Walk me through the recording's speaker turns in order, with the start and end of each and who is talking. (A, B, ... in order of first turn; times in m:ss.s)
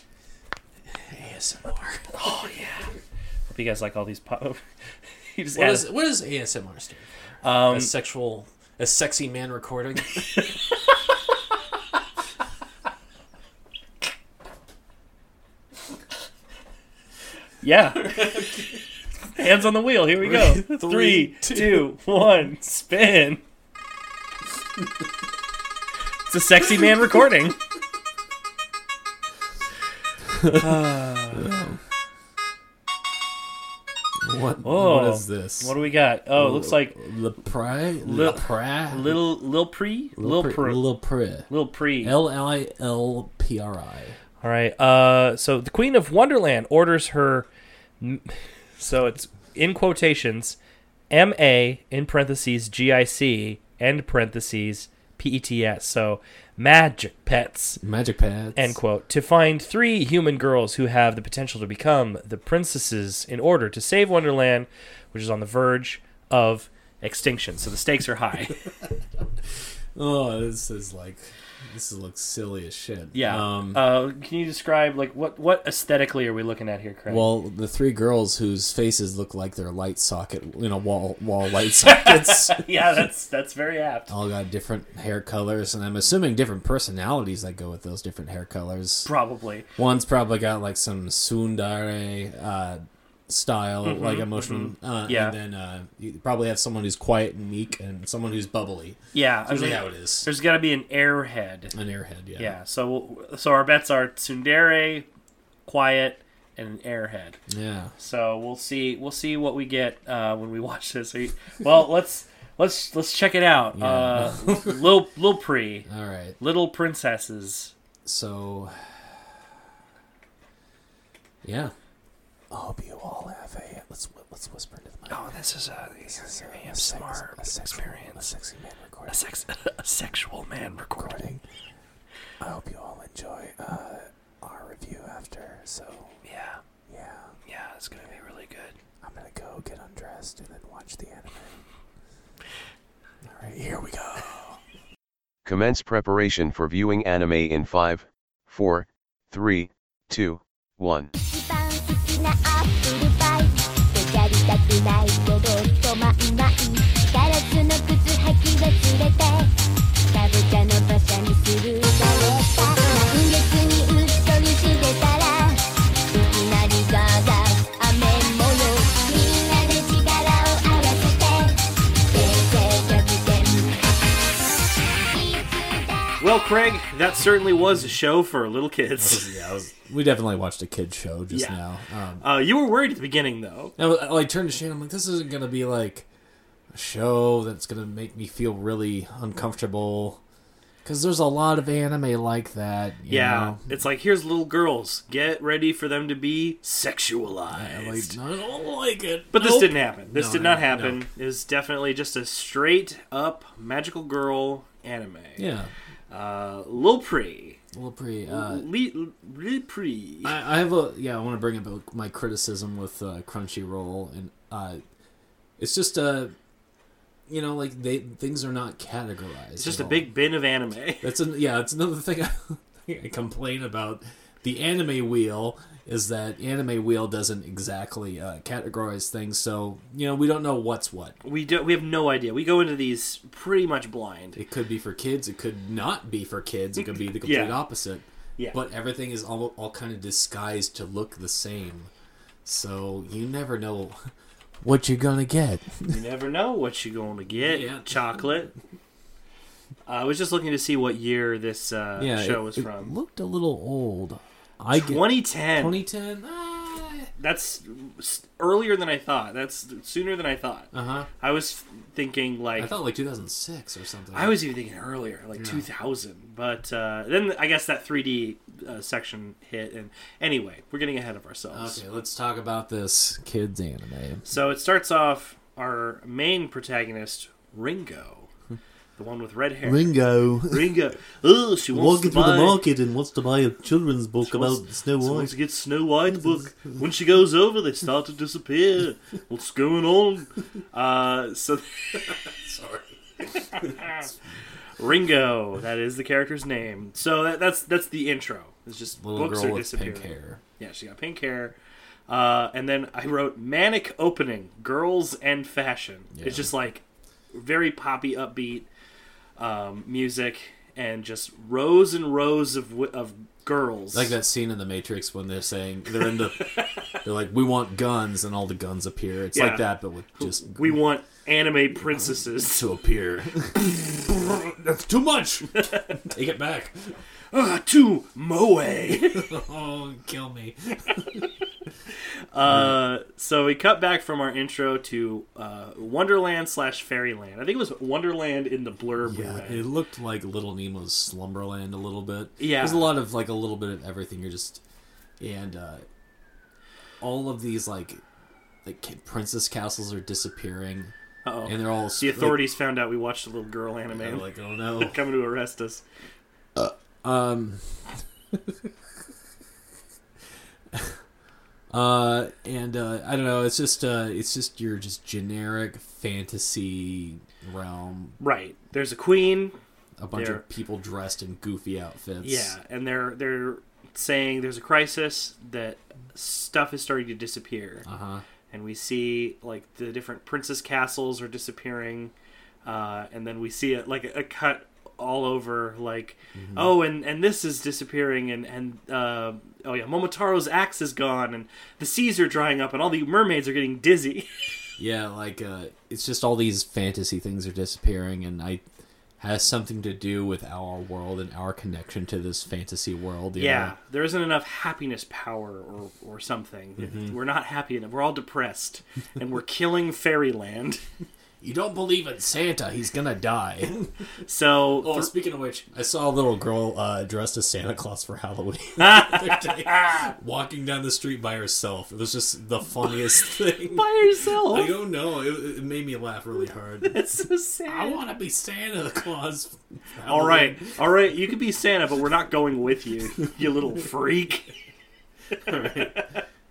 0:00.9-0:02.2 A
0:02.1-0:02.9 B
0:03.5-0:04.6 B
0:05.3-0:05.9 B
0:05.5-0:07.1 A
0:07.4-0:07.9 B
0:07.7-0:10.4 A
0:17.6-0:18.4 B
0:18.0-0:18.8 A
0:19.3-0:23.4 B
0:20.2-0:21.9 A
0:26.3-0:27.6 B
0:30.3-0:31.8 A
0:30.5-0:31.5 B
0:34.2-0:35.7 A
0:34.6-0:37.0 B
0:36.3-0:39.2 A
0:38.0-0:40.8 B
0:40.2-0:41.5 A
0:41.5-0:42.2 B
0:42.0-0:44.2 A
0:44.4-0:47.5 B
0:48.0-0:50.6 B
0:51.1-0:57.8 B
0:57.8-0:58.8 A
0:58.6-1:08.6 B
1:09.9-1:13.8 A
1:13.1-1:17.3 B
1:17.1-1:22.6 A
1:21.8-1:24.1 B
1:24.1-1:29.1 A
1:29.0-1:29.7 B
1:29.8-1:40.3 A
1:33.8-1:35.4 B
1:39.1-1:41.7 B
1:41.7-1:42.5 A
1:42.4-1:45.1 B
1:45.7-1:47.4 B
1:47.5-1:47.9 A
1:48.0-1:55.9 B
1:53.8-1:54.8 A
1:55.8-1:56.4 A
1:56.4-1:57.7 B
1:58.0-1:59.1 A
2:01.4-2:01.7 A
2:02.5-2:05.2 A
2:05.1-2:08.2 B
2:06.1-2:09.1 A
2:09.1-2:11.3 B
2:11.0-2:11.4 A
2:12.4-2:16.2 A
2:16.2-2:16.6 B
2:16.9-2:17.3 A
2:17.5-2:18.7 B
2:19.0-2:21.6 A
2:23.3-2:24.6 A
2:25.4-2:31.1 C
2:31.2-2:39.5 D
2:40.1-2:53.9 D
2:55.1-2:56.3 D
2:56.2-2:59.3 B
2:59.0-3:02.2 A
3:01.3-3:01.6 B
3:02.2-3:03.7 B
3:03.8-3:06.0 A
3:06.7-3:10.2 A
3:10.8-3:13.6 A
3:13.1-3:18.2 B
3:17.5-3:21.0 A
3:19.3-3:25.4 B
3:25.4-3:25.7 A
3:26.1-3:27.6 B
3:27.7-3:28.7 A
3:28.3-3:30.4 B
3:30.2-3:34.8 A
3:35.6-3:36.3 A
3:37.3-3:40.1 A
3:39.6-3:41.1 B
3:41.0-3:51.2 A
3:51.2-3:54.4 B
3:54.3-4:01.9 A
3:57.2-3:57.6 B
4:02.4-4:04.1 A
4:04.6-4:06.0 A
4:05.9-4:08.5 B
4:07.4-4:08.0 A
4:09.9-4:12.9 B
4:12.0-4:17.1 A
4:14.7-4:15.8 B
4:17.2-4:22.7 B
4:20.7-4:21.1 A
4:22.6-4:24.4 A
4:24.1-4:31.8 B
4:25.4-4:25.6 A
4:31.5-4:34.3 A
4:34.2-4:38.3 B
4:39.0-4:42.6 B
4:39.6-4:40.8 A
4:41.7-4:45.4 A
4:44.2-4:52.2 B
4:52.0-4:52.9 A
4:53.4-4:54.0 B
4:53.6-4:54.2 A
4:54.8-5:01.5 B
4:59.0-5:00.4 A
5:02.1-5:08.7 B
5:06.1-5:06.5 A
5:09.4-5:14.2 B
5:13.9-5:16.5 A
5:16.0-5:16.9 B
5:17.0-5:20.8 A
5:19.3-5:22.6 B
5:21.9-5:27.0 A
5:27.3-5:29.3 B
5:29.1-5:31.2 A
5:32.3-5:39.6 B
5:32.4-5:32.8 A
5:39.0-5:44.6 A
5:42.4-5:42.9 B
5:45.2-5:45.8 A
5:47.0-5:48.0 A
5:48.6-5:50.9 A
5:51.2-5:55.8 B
5:51.4-5:52.5 A
5:53.9-5:55.0 A
5:56.6-5:58.7 A
6:01.7-6:08.2 A
6:08.2-6:09.6 B
6:10.0-6:12.5 A
6:10.1-6:10.4 B
6:12.2-6:17.8 B
6:17.8-6:18.2 A
6:18.5-6:22.1 B
6:22.6-6:34.3 B
6:26.3-6:26.8 A
6:34.8-6:38.6 A
6:39.2-6:43.7 A
6:43.4-6:50.8 B
6:46.8-6:47.2 A
6:51.4-6:53.9 A
6:54.2-6:55.1 B
6:54.8-7:07.0 A
6:58.8-7:00.1 B
7:03.6-7:04.7 B
7:06.9-7:08.0 B
7:07.6-7:10.7 A
7:10.0-7:14.5 B
7:15.4-7:16.0 A
7:15.5-7:16.2 B